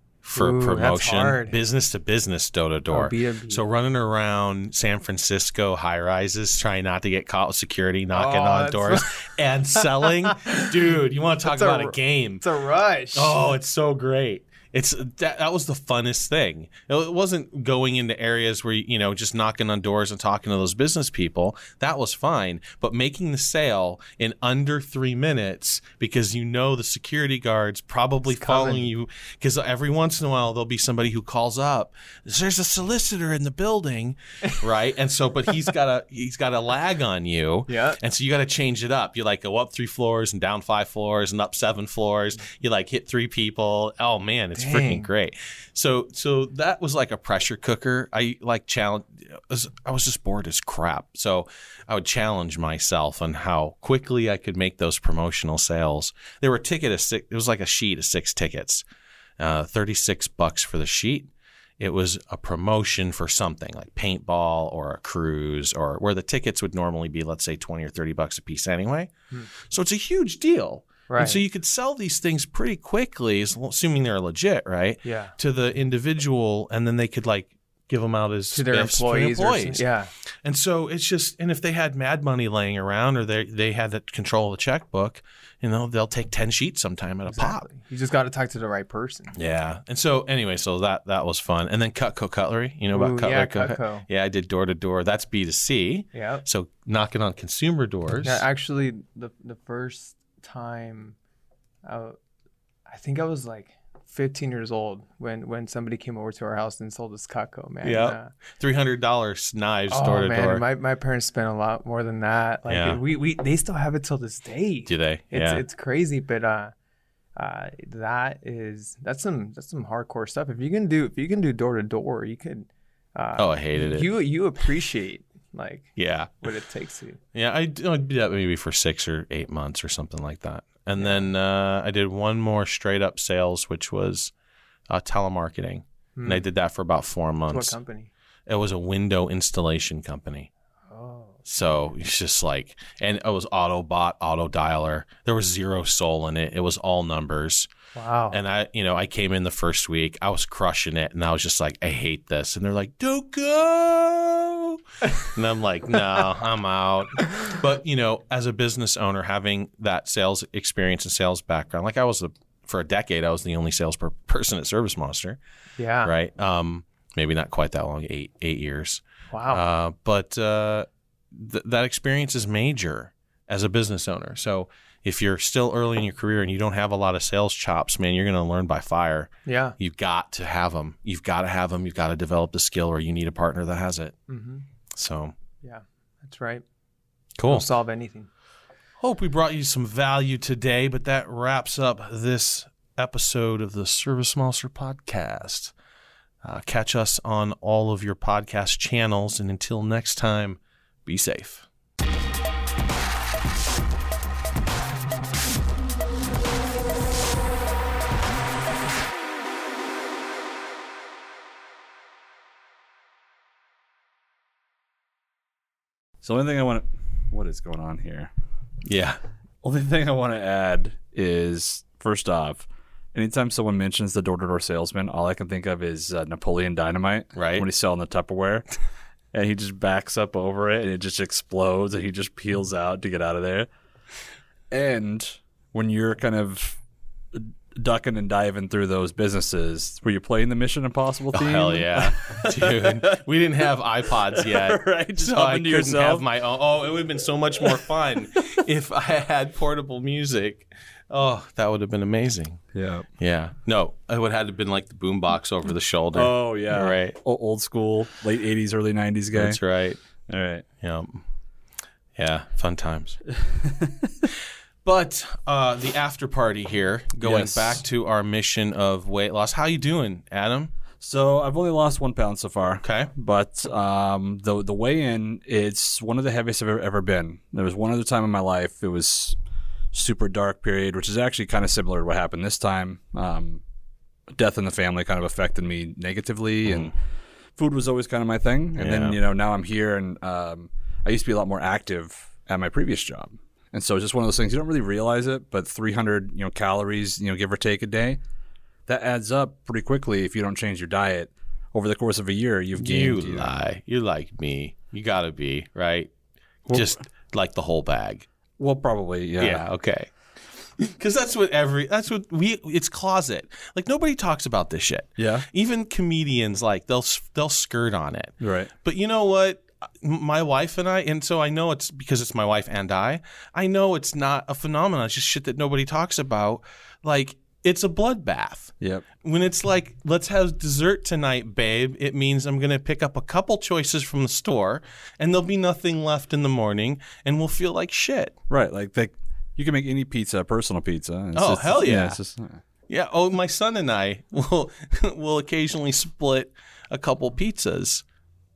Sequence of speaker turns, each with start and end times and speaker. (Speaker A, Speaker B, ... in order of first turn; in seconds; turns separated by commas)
Speaker A: 0.2-12.4, Speaker B: 0.3-1.6, Speaker B: 2.9-3.6, Speaker B: 8.1-13.4, Speaker A: 13.1-58.8, Speaker B: 28.2-28.9, Speaker B: 37.7-38.0, Speaker B: 44.5-45.1, Speaker A: 59.4-79.8, Speaker B: 71.1-71.4, Speaker B: 75.0-75.3, Speaker B: 78.5-80.1, Speaker A: 80.4-87.7, Speaker B: 87.3-89.3, Speaker A: 89.3-98.4, Speaker B: 92.9-94.0, Speaker B: 96.1-96.4, Speaker B: 98.2-101.2, Speaker B: 101.8-102.2, Speaker B: 102.9-108.3, Speaker A: 107.8-110.6, Speaker B: 109.9-116.7, Speaker A: 112.7-113.0, Speaker A: 114.8-115.6, Speaker B: 117.3-127.2, Speaker A: 123.4-124.1, Speaker A: 126.0-126.5, Speaker A: 127.3-134.3, Speaker B: 131.0-131.3, Speaker A: 134.9-137.8, Speaker B: 136.2-136.5, Speaker B: 137.5-138.1, Speaker A: 138.5-140.5, Speaker B: 140.9-141.4, Speaker A: 141.4-147.7, Speaker B: 147.9-148.4, Speaker A: 148.3-165.4, Speaker B: 165.8-166.1, Speaker A: 166.0-184.1, Speaker B: 169.3-169.6, Speaker B: 179.4-179.8, Speaker B: 184.3-184.7, Speaker A: 184.9-185.3, Speaker B: 185.6-186.6, Speaker A: 187.4-187.7, Speaker B: 187.4-188.3, Speaker A: 189.0-195.7, Speaker A: 196.4-201.7, Speaker C: 216.2-218.3, Speaker A: 218.8-219.2, Speaker C: 219.6-228.7, Speaker A: 227.3-227.7, Speaker C: 229.3-233.7, Speaker C: 234.7-236.8, Speaker C: 237.3-243.2, Speaker A: 241.3-252.6, Speaker C: 244.3-246.2, Speaker C: 252.7-253.1, Speaker A: 253.2-257.2, Speaker C: 256.1-259.6, Speaker A: 259.3-260.0, Speaker C: 260.3-260.6, Speaker A: 260.8-261.2, Speaker A: 262.1-263.2, Speaker C: 263.4-264.1, Speaker A: 264.8-270.7, Speaker C: 267.2-267.8, Speaker C: 271.0-279.4, Speaker A: 272.8-273.1, Speaker C: 279.9-283.6, Speaker C: 284.3-286.9, Speaker A: 286.7-286.9, Speaker C: 287.6-298.2, Speaker A: 288.8-289.2, Speaker C: 298.9-303.5, Speaker A: 302.8-306.1, Speaker A: 306.7-308.3, Speaker C: 308.6-309.6, Speaker A: 309.4-310.1, Speaker A: 310.8-338.4, Speaker C: 315.2-315.4, Speaker C: 318.4-318.7, Speaker C: 338.5-342.6, Speaker A: 341.3-342.2, Speaker A: 342.9-348.0